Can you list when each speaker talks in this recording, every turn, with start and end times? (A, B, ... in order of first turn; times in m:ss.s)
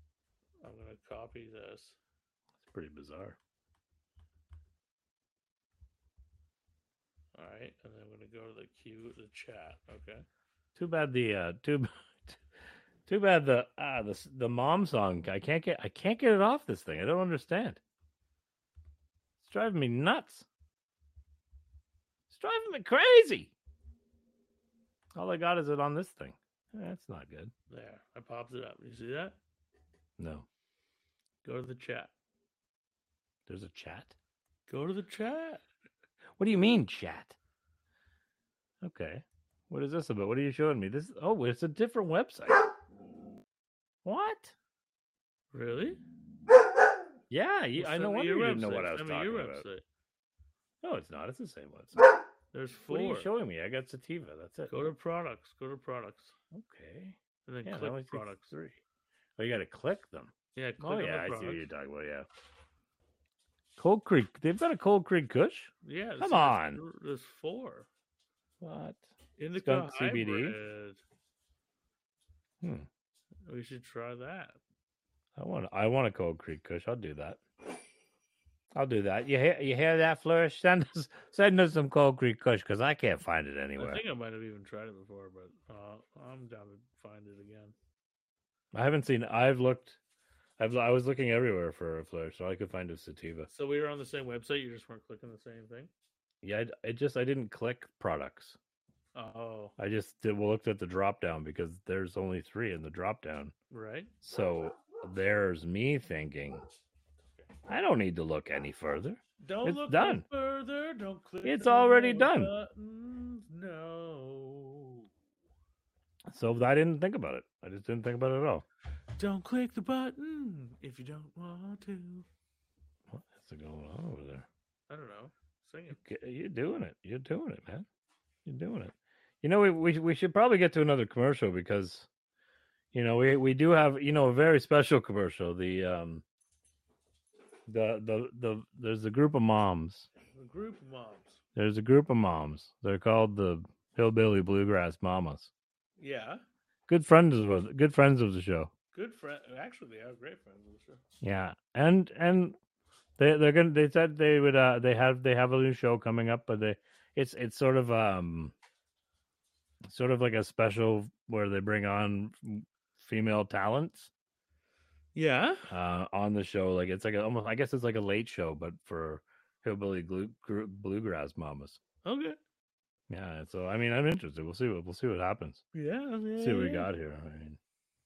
0:00.6-0:02.0 A
0:02.6-0:03.4 B
0:07.3-0:10.2 A
0:10.8-0:12.4 B
0:13.0-0:17.8 B
0:19.4-0:20.4 B
0:22.3-0:23.5 B
0:25.1-0:27.5 B
0:27.7-0:29.4 A
0:30.2-0:30.4 B
0:31.4-0:32.1 A
0:33.5-0:34.1 B
0:34.7-0:35.6 A
0:36.4-0:37.3 B
0:38.8-0:42.6 B
0:44.0-0:44.5 B
0:45.5-0:46.0 A
0:47.3-0:49.6 B
0:47.8-0:49.8 A
0:50.8-0:52.1 B
0:52.5-0:53.3 A
0:52.9-0:54.8 B
0:54.7-0:56.3 A
0:56.5-0:58.8 B
0:57.4-0:58.5 A
0:59.4-1:02.3 B
1:00.5-1:01.6 A
1:03.8-1:06.8 B
1:05.8-1:07.9 A
1:08.6-1:09.0 B
1:09.4-1:11.0 A
1:09.6-1:10.6 B
1:12.6-1:12.9 B
1:13.4-1:14.6 A
1:15.4-1:17.4 B
1:18.7-1:24.0 B
1:23.8-1:27.7 A
1:28.7-1:30.0 B
1:30.6-1:33.5 B
1:33.5-1:35.9 A
1:36.4-1:38.6 B
1:39.1-1:39.7 A
1:39.8-1:43.5 B
1:43.7-1:44.1 A
1:44.2-1:46.6 B
1:47.7-1:50.2 B
1:49.4-1:55.1 A
1:51.4-1:52.5 B
1:56.3-1:58.6 B
1:59.2-2:02.2 A
2:03.1-2:04.4 B
2:04.9-2:06.0 A
2:05.9-2:07.8 B
2:08.4-2:12.1 B
2:12.9-2:16.2 B
2:17.7-2:20.1 B
2:20.3-2:21.4 A
2:21.6-2:25.5 B
2:26.0-2:26.4 A
2:26.9-2:28.7 B
2:28.9-2:31.0 A
2:31.2-2:32.6 B
2:33.2-2:38.5 B
2:39.8-2:44.1 B
2:45.1-2:45.6 A
2:45.7-2:51.8 B
2:52.0-2:52.4 A
2:53.1-2:55.6 B
2:55.7-2:56.9 A
2:56.4-2:57.6 B